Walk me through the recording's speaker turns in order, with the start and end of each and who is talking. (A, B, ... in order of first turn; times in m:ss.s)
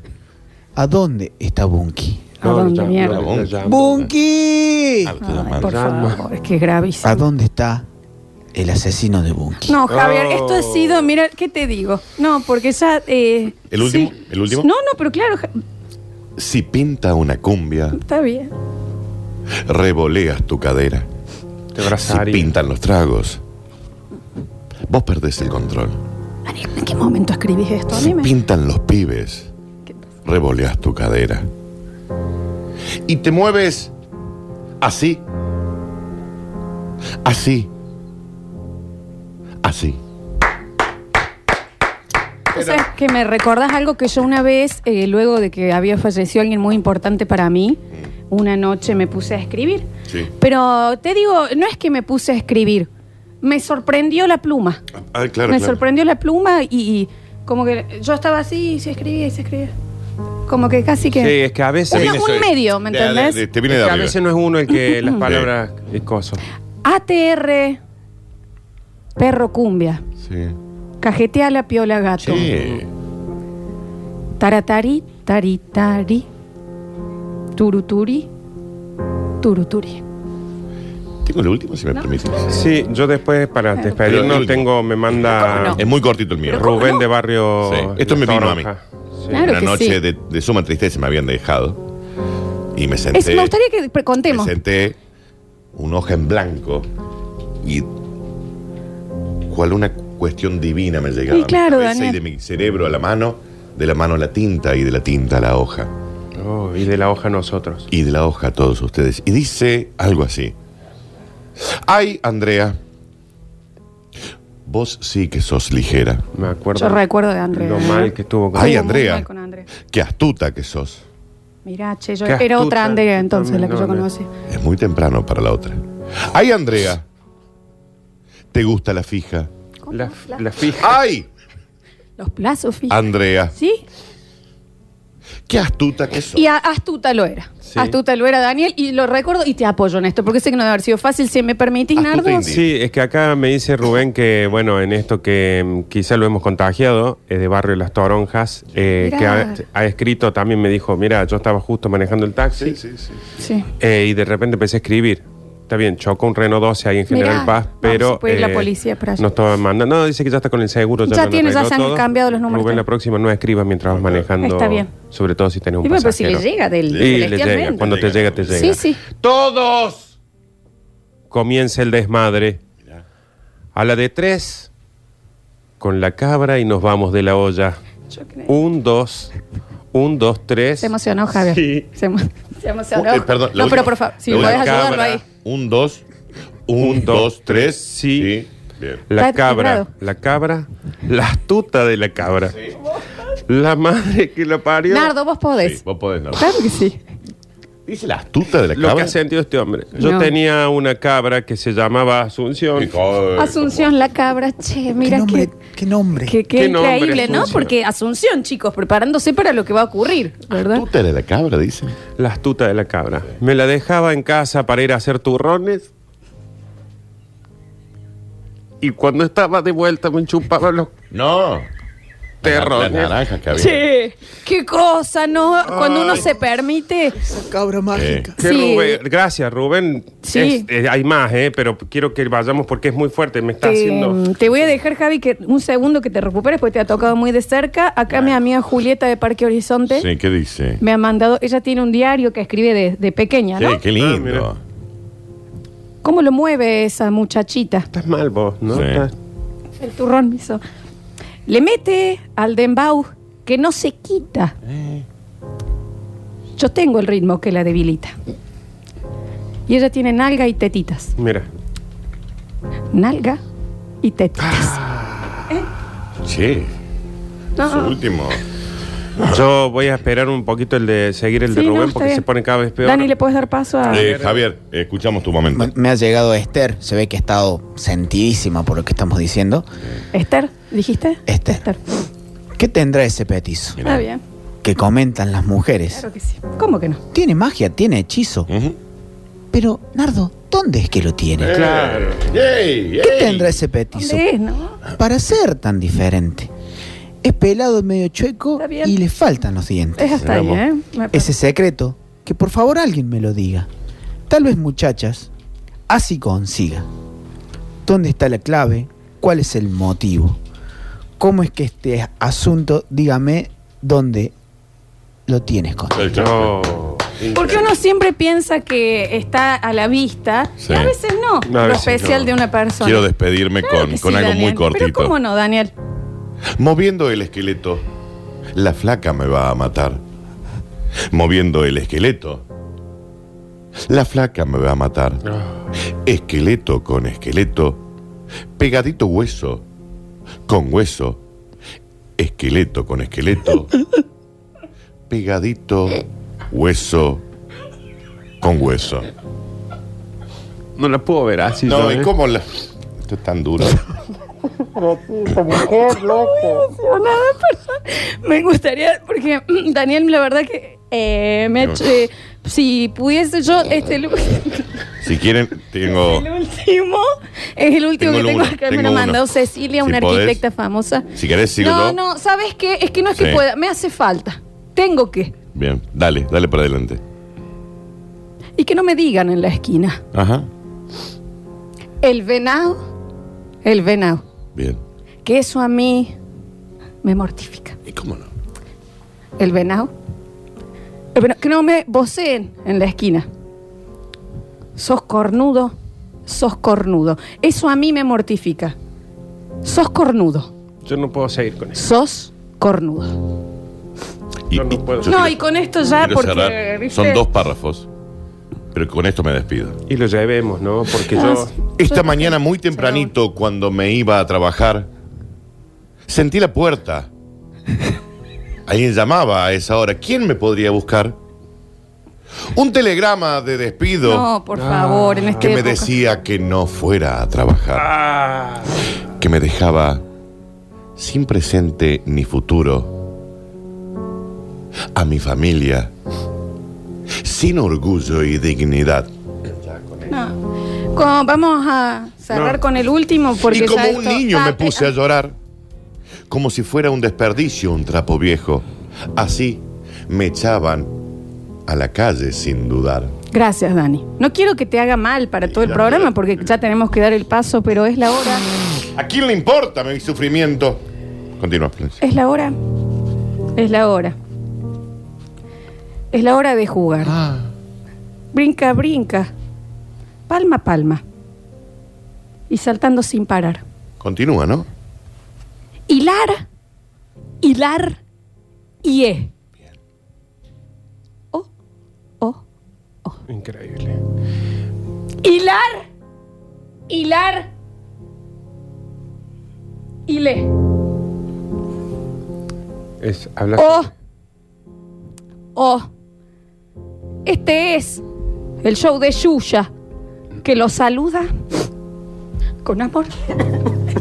0:00.8-0:02.3 A
0:02.4-0:03.3 B
0:02.4-0:04.0 C
0:03.0-0:04.1 D
0:03.6-0:05.2 A
0:05.0-0:05.8 D
0:05.2-0:07.2 B
0:05.6-0:06.2 C
0:07.0-0:07.9 A
0:08.5-0:09.8 A
0:09.6-0:15.6 B
0:09.9-0:11.1 C
0:13.7-0:14.7 D
0:16.4-0:18.0 D
0:17.9-0:18.5 B
0:19.6-0:21.1 D
0:21.7-0:22.5 C
0:21.9-0:23.4 D
0:24.9-0:26.0 D
0:26.5-0:28.3 B
0:27.9-0:29.5 D
0:30.2-0:31.5 D
0:33.1-0:33.9 D
0:34.8-0:35.2 D
0:37.2-0:37.7 D
0:39.6-0:40.0 D
0:42.5-0:42.8 D
0:42.5-0:52.9 B
0:53.4-0:54.8 B
0:55.0-0:55.8 D
0:55.5-0:59.7 B
1:00.5-1:01.4 B
1:01.2-1:02.2 C
1:01.9-1:03.4 B
1:01.9-1:04.2 D
1:03.7-1:06.4 C
1:04.7-1:05.2 B
1:05.2-1:05.5 D
1:06.8-1:07.8 B
1:09.2-1:10.0 B
1:10.2-1:10.6 D
1:11.0-1:12.5 B
1:12.2-1:12.9 D
1:14.4-1:16.3 B
1:17.6-1:18.3 B
1:19.4-1:20.0 B
1:21.2-1:22.6 D
1:22.5-1:25.9 C
1:24.0-1:26.8 D
1:25.3-1:25.8 B
1:26.5-1:27.1 B
1:26.5-1:29.5 C
1:27.6-1:28.7 D
1:29.3-1:30.0 B
1:29.3-1:31.8 D
1:32.7-1:33.5 D
1:33.1-1:34.6 B
1:34.3-1:35.0 D
1:35.8-1:36.9 D
1:37.6-1:37.9 D
1:39.5-1:45.9 D
1:41.3-1:42.2 B
1:46.4-1:47.9 C
1:47.9-1:50.6 D
1:51.6-1:52.8 D
1:54.6-1:56.2 D
1:56.3-1:58.9 C
1:56.8-1:59.7 B
1:58.5-1:59.3 D
1:59.8-2:01.0 D
2:01.6-2:04.3 B
2:02.3-2:04.1 C
2:04.5-2:07.0 D
2:08.5-2:09.5 D
2:09.9-2:10.4 B
2:09.9-2:11.0 C
2:10.8-2:11.3 D
2:12.2-2:13.0 B
2:12.9-2:13.5 D
2:13.5-2:13.8 B
2:15.5-2:16.4 D
2:16.3-2:22.5 B
2:17.7-2:18.0 C
2:22.0-2:22.7 D
2:22.5-2:32.8 C
2:29.0-2:29.6 B
2:32.6-2:33.2 D
2:33.4-2:33.7 B
2:33.8-2:46.4 C
2:37.1-2:39.3 B
2:41.1-2:42.8 B
2:43.9-2:44.3 D
2:44.4-2:44.9 B
2:45.8-2:47.9 B
2:46.9-2:48.8 D
2:47.0-2:50.1 C
2:48.5-2:49.0 B
2:51.3-2:52.6 C
2:53.8-2:54.7 C
2:55.8-2:57.8 C
2:58.1-2:58.5 B
2:58.5-2:59.3 C
2:59.9-3:01.9 C
3:00.8-3:05.2 B
3:03.0-3:06.0 D
3:04.3-3:05.2 C
3:06.7-3:09.0 D
3:06.8-3:08.4 C
3:09.1-3:12.6 C
3:09.2-3:09.9 B
3:13.5-3:15.1 C
3:14.9-3:15.8 B
3:15.6-3:16.6 D
3:16.4-3:17.0 B
3:17.9-3:19.2 D
3:18.8-3:22.9 C
3:20.0-3:20.3 B
3:22.8-3:23.9 D
3:23.4-3:25.5 B
3:25.0-3:26.4 A
3:26.2-3:30.8 B
3:26.5-3:27.7 C
3:30.6-3:32.0 D
3:32.2-3:35.9 C
3:38.8-3:40.9 C
3:41.1-3:41.7 D
3:42.4-3:43.2 C
3:42.4-3:43.9 D
3:43.5-3:47.2 B
3:47.2-3:48.4 A
3:47.9-3:48.3 D
3:48.4-3:49.0 B
3:48.4-3:54.2 C
3:50.2-3:50.7 B
3:53.6-4:00.1 B
3:58.1-3:58.4 D
3:59.9-4:00.8 D
4:00.8-4:03.8 B
4:03.6-4:04.6 D
4:04.0-4:04.5 C
4:06.0-4:07.9 B
4:07.9-4:09.1 C
4:08.7-4:09.1 D
4:09.8-4:10.6 B
4:11.5-4:14.6 B
4:14.6-4:15.0 D
4:16.6-4:18.2 B
4:19.7-4:21.2 B
4:21.2-4:21.5 C
4:22.9-4:23.4 B
4:24.0-4:24.8 B
4:24.5-4:25.2 C
4:26.2-4:26.7 D
4:27.6-4:28.0 B
4:27.6-4:28.4 D
4:29.2-4:33.1 C
4:31.5-4:32.2 B
4:32.8-4:34.1 B
4:33.8-4:34.4 C
4:33.9-4:35.7 D
4:35.5-4:39.7 A
4:40.1-4:41.8 B
4:41.3-4:41.6 A
4:42.6-4:43.8 A
4:43.8-4:44.1 D
4:43.8-4:44.2 B
4:44.6-4:46.0 A
4:45.9-4:47.0 B
4:47.1-4:48.5 A
4:48.5-4:48.8 D
4:49.5-4:51.7 A
4:51.4-4:53.6 D
4:51.5-4:52.3 C
4:53.0-4:54.3 A
4:54.0-4:54.8 B
4:54.9-4:56.5 A
4:57.2-5:00.4 A
4:58.6-4:58.9 B
5:00.0-5:01.3 B
5:00.2-5:00.6 D
5:01.1-5:03.7 A
5:04.3-5:05.3 A
5:05.9-5:06.9 A
5:07.8-5:10.4 A
5:11.2-5:14.3 A
5:15.3-5:16.1 A
5:15.9-5:17.6 D
5:16.1-5:17.2 C
5:17.3-5:23.1 B
5:20.6-5:21.0 D
5:21.5-5:22.3 C
5:22.8-5:25.1 D
5:23.6-5:25.7 B
5:26.6-5:27.8 D
5:28.6-5:30.0 D
5:31.1-5:32.4 D
5:33.9-5:35.2 D
5:35.9-5:37.8 D
5:38.6-5:39.6 D
5:40.5-5:41.2 D
5:42.2-5:43.7 D
5:45.1-5:47.2 D
5:48.4-5:49.1 D
5:50.8-5:52.1 C
5:51.6-5:52.5 D
5:53.0-5:53.8 D
5:55.5-5:56.0 C
5:55.6-6:04.8 B
6:05.0-6:06.3 D
6:05.9-6:15.4 B
6:08.0-6:09.2 D
6:09.8-6:10.4 D
6:11.1-6:12.0 D
6:13.1-6:13.4 D
6:15.5-6:17.0 D
6:18.6-6:20.0 B
6:20.1-6:20.5 D
6:22.0-6:22.8 B
6:23.6-6:24.2 B
6:24.6-6:24.8 D
6:25.2-6:26.2 B
6:27.0-6:27.8 B
6:27.9-6:28.3 D
6:29.4-6:29.9 B
6:31.2-6:33.3 B
6:34.8-6:35.8 B
6:36.3-6:38.8 B
6:39.6-6:40.5 B
6:40.8-6:41.8 C
6:41.8-6:43.2 B
6:44.5-6:45.4 D
6:44.5-6:45.2 C
6:45.0-6:47.2 B
6:46.0-6:47.9 D
6:48.7-6:49.8 D
6:49.9-6:51.5 C
6:51.1-6:53.1 B
6:51.7-6:54.9 D
6:56.1-6:57.1 D
6:58.7-7:01.2 D
7:02.5-7:04.3 D
7:04.0-7:05.9 B
7:04.6-7:05.4 C
7:05.4-7:07.9 D
7:07.8-7:08.8 C
7:09.2-7:10.0 D
7:11.0-7:13.0 D
7:14.9-7:15.9 D
7:17.2-7:20.1 D
7:20.1-7:20.4 B
7:20.9-7:24.9 B
7:22.3-7:22.6 C
7:23.4-7:25.4 D
7:26.3-7:31.0 D
7:31.7-7:33.1 D
7:33.3-7:38.4 B
7:35.4-7:36.5 D
7:38.9-7:40.8 D
7:41.4-7:42.0 D
7:42.0-7:42.6 B
7:43.6-7:44.2 B
7:46.1-7:47.2 B
7:47.0-7:47.5 D
7:48.3-7:49.3 B
7:50.3-7:51.0 B
7:52.5-7:53.6 B
7:54.0-7:54.7 D
7:55.9-7:56.5 B
7:57.4-7:58.0 B
7:58.8-7:59.3 B
8:03.3-8:04.0 C
8:05.2-8:05.9 B
8:06.9-8:07.5 B
8:10.1-8:10.5 B
8:13.0-8:13.9 C
8:13.6-8:13.9 B
8:15.6-8:15.9 B
8:17.2-8:18.0 B
8:18.6-8:19.7 B
8:20.4-8:21.3 B
8:22.6-8:23.6 B